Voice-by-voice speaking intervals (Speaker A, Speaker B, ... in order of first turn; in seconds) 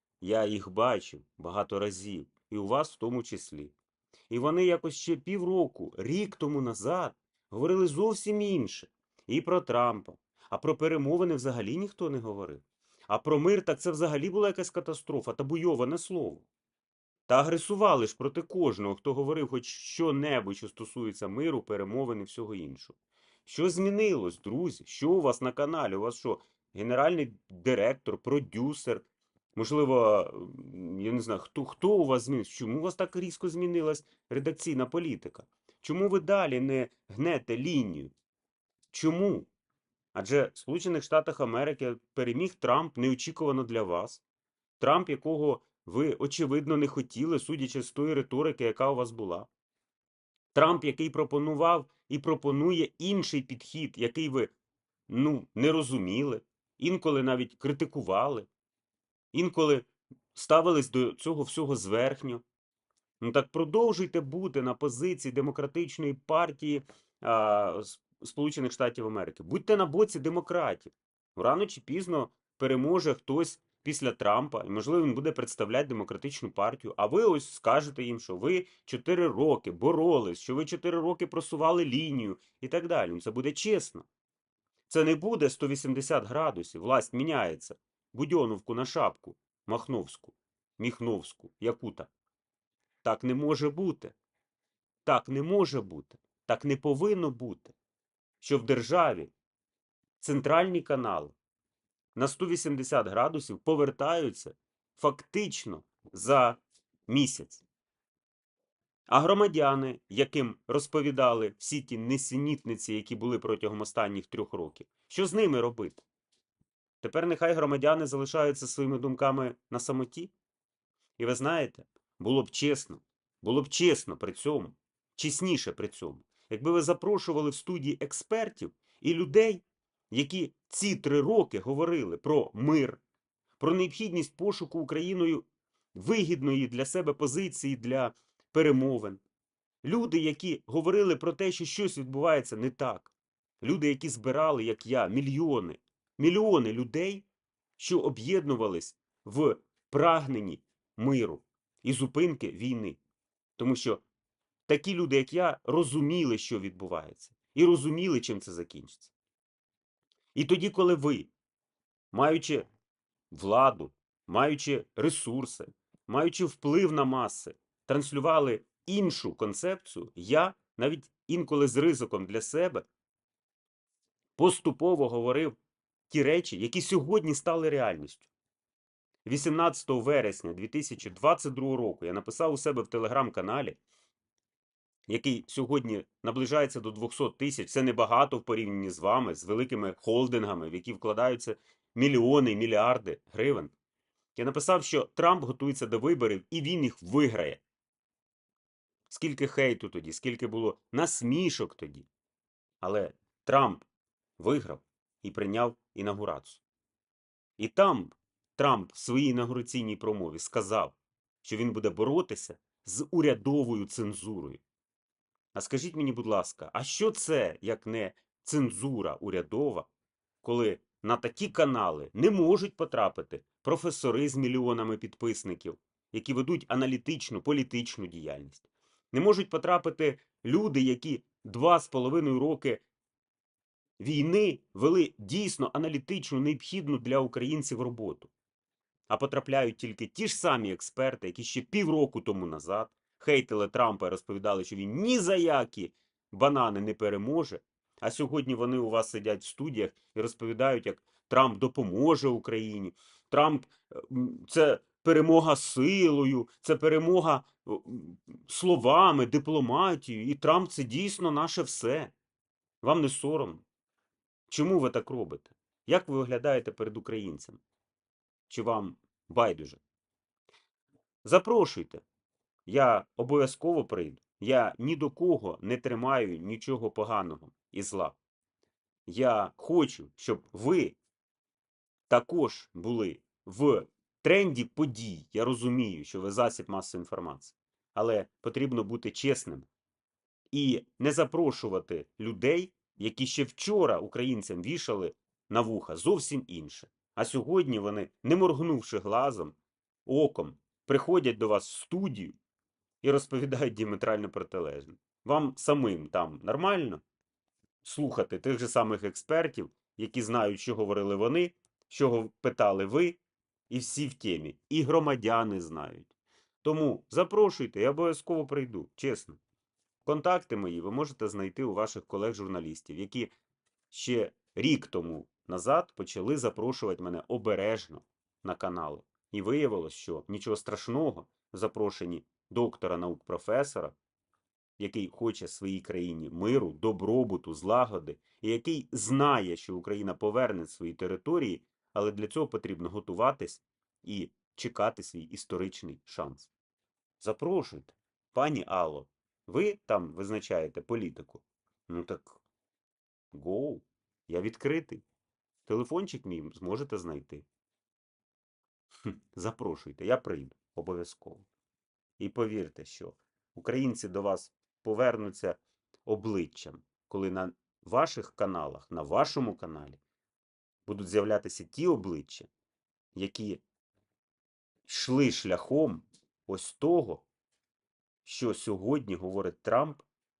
Speaker A: 0.2-3.7, 4.3-16.5, 17.3-38.1, 38.9-39.5, 40.1-44.2, 44.8-49.5, 50.5-54.5, 55.1-58.5, 59.3-62.4, 63.2-84.1, 84.9-92.1, 93.0-94.1, 95.0-97.7, 98.4-99.3, 100.2-101.3, 102.2-107.6, 109.1-116.0, 117.0-120.3, 121.2-133.0, 133.6-139.2, 139.8-147.2, 147.8-153.0, 153.6-154.0, 154.7-159.1, 160.3-161.3, 162.1-162.7, 163.3-172.9, 174.4-175.6, 176.1-178.3, 179.2-183.8, 185.1-193.7, 194.3-197.6, 199.1-202.1, 202.8-203.8, 204.4-206.6, 207.6-214.6, 215.5-219.9, 220.4-232.8, 234.0-238.3, 239.1-262.1, 262.8-263.6, 264.5-267.6, 268.5-269.8, 271.2-272.0, 272.7-278.2, 279.1-281.0, 282.1-289.7, 290.5-302.4, 303.0-307.0, 307.8-316.1, 316.6-319.4, 320.0-323.3, 323.9-333.9, 334.8-346.5, 347.2-352.4, 353.3-355.0, 355.6-357.4, 359.1-361.5, 362.2-370.0, 370.9-372.5, 373.1-373.6, 374.9-377.2, 378.2-380.1